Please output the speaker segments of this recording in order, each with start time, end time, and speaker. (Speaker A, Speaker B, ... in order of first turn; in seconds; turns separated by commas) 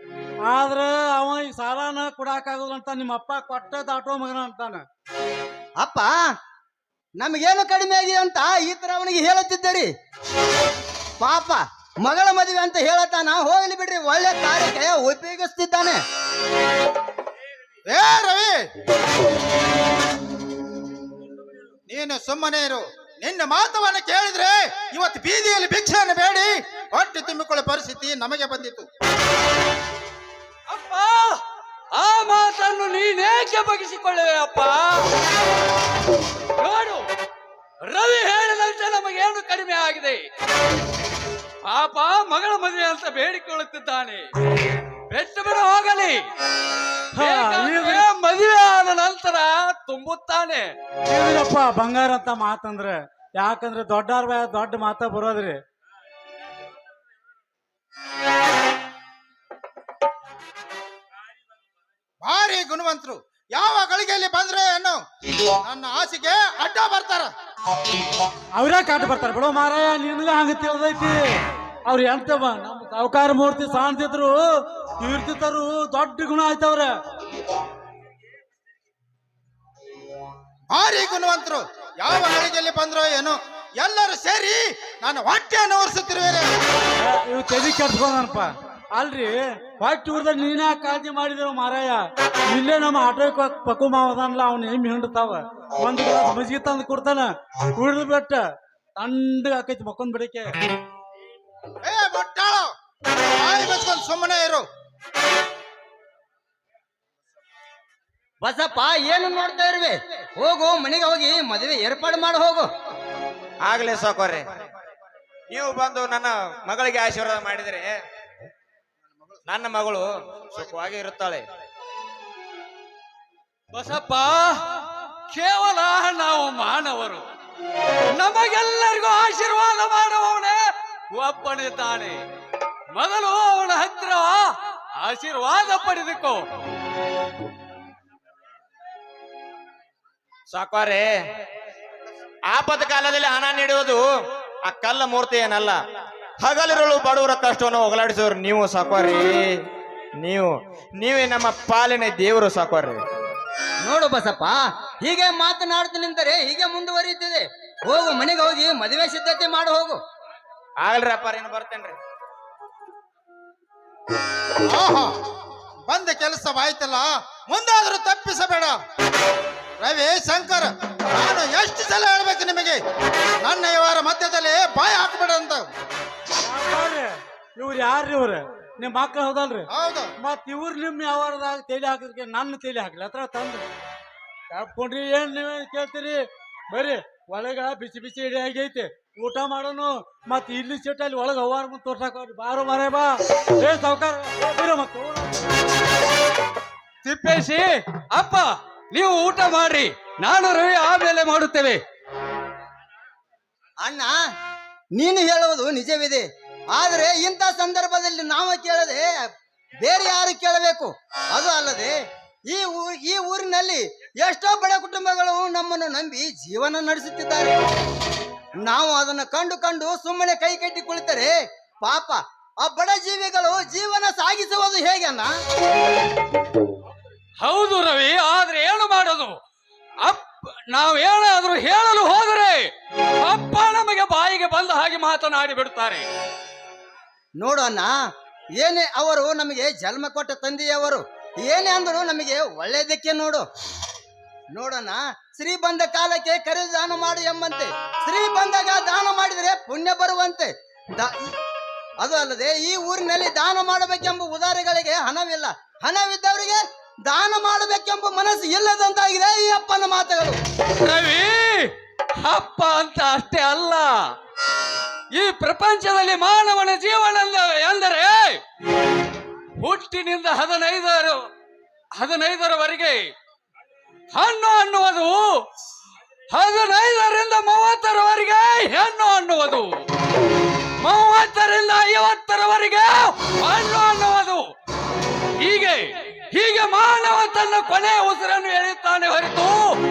Speaker A: 0.5-4.8, Speaker B: 5.8-6.1, Speaker B: 7.2-9.9, Speaker B: 11.2-16.0, Speaker C: 17.9-18.6, Speaker C: 21.9-28.9, Speaker D: 30.7-31.4, Speaker D: 31.9-35.1, Speaker D: 36.6-37.0, Speaker D: 37.8-40.2, Speaker D: 41.6-44.3, Speaker D: 45.1-46.2, Speaker A: 47.1-48.1, Speaker D: 47.2-50.8, Speaker A: 51.1-55.6, Speaker C: 62.2-65.0, Speaker C: 65.6-67.3, Speaker A: 68.5-71.2, Speaker A: 71.9-74.4, Speaker A: 75.0-76.9, Speaker C: 80.7-86.5, Speaker A: 87.0-98.4, Speaker A: 99.0-100.5, Speaker C: 101.8-102.7, Speaker C: 103.3-104.7, Speaker B: 108.4-112.7, Speaker E: 113.6-114.5, Speaker E: 115.5-117.9, Speaker E: 119.5-121.5, Speaker D: 123.7-127.3, Speaker D: 128.1-130.6, Speaker D: 131.1-132.2, Speaker D: 132.9-134.5, Speaker D: 135.0-136.4, Speaker E: 140.5-141.1, Speaker E: 142.5-144.0, Speaker E: 144.7-145.8, Speaker E: 146.4-149.4, Speaker E: 150.2-153.0, Speaker B: 153.8-160.0, Speaker E: 160.8-162.0, Speaker C: 164.6-165.1, Speaker C: 165.9-168.8, Speaker C: 169.8-172.8, Speaker C: 173.4-175.7, Speaker A: 176.4-179.7, Speaker C: 179.7-180.1, Speaker A: 180.2-183.6, Speaker A: 184.5-195.5, Speaker D: 197.0-201.8, Speaker B: 203.8-204.1, Speaker B: 204.9-209.0, Speaker B: 209.8-211.9, Speaker B: 212.5-217.6, Speaker B: 218.6-225.3, Speaker D: 227.4-229.4, Speaker D: 230.0-236.1, Speaker B: 237.4-237.9, Speaker B: 238.6-243.5, Speaker B: 244.5-251.3, Speaker B: 252.0-260.4, Speaker D: 260.8-264.0, Speaker D: 265.1-268.4, Speaker D: 269.6-271.2, Speaker D: 272.0-273.0, Speaker D: 274.1-275.4, Speaker D: 276.3-279.8, Speaker D: 280.8-284.4, Speaker D: 285.4-289.8